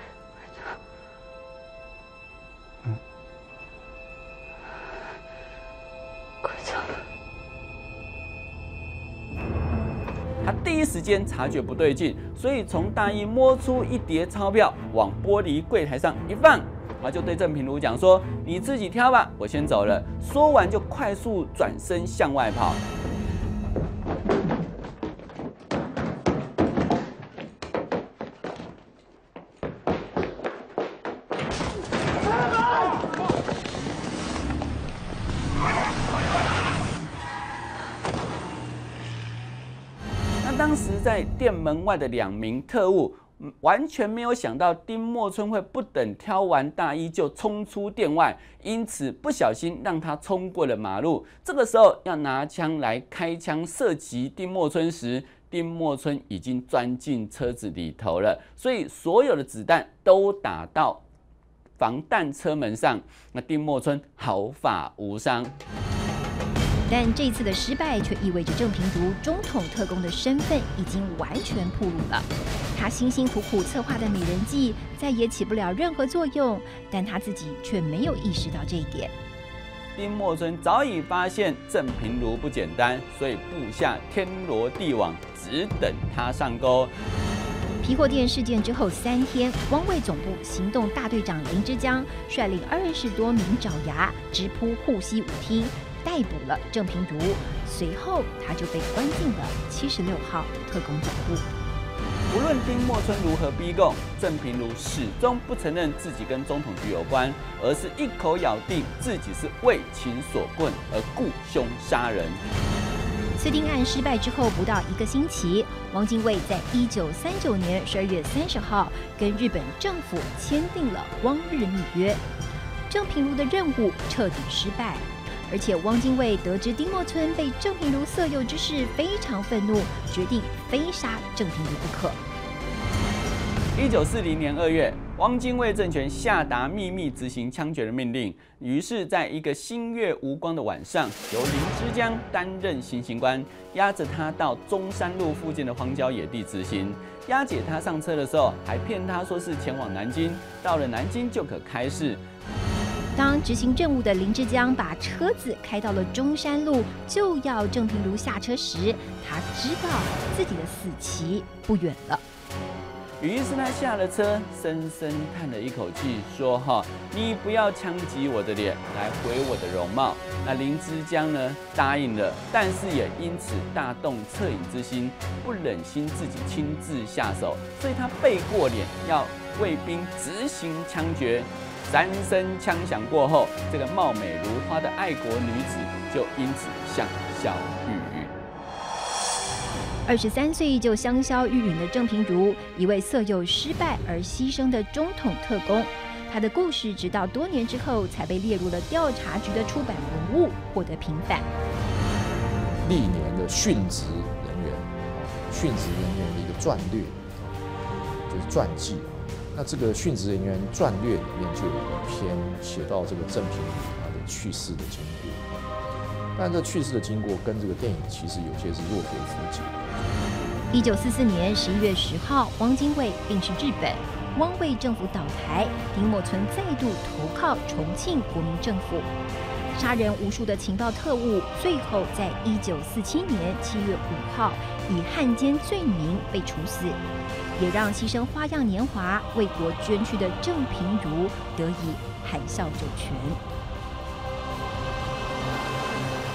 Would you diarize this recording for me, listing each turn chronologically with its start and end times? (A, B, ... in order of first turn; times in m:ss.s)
0:10.4-0:22.8 A
0:40.4-1:01.0 A
1:01.8-1:05.5 A
1:06.9-1:19.1 B
1:20.0-1:26.9 A
1:27.8-1:41.5 B
1:42.3-1:52.4 A
1:53.4-2:02.2 B
2:02.9-2:12.2 B
2:13.8-2:32.2 A
2:33.2-2:42.2 B
2:43.2-3:08.3 A
3:10.1-3:21.5 B
3:22.8-3:27.6 C
3:28.3-3:35.5 C
3:36.4-3:40.0 C
3:40.7-3:49.1 B
3:49.8-3:57.0 B
3:57.6-4:03.4 B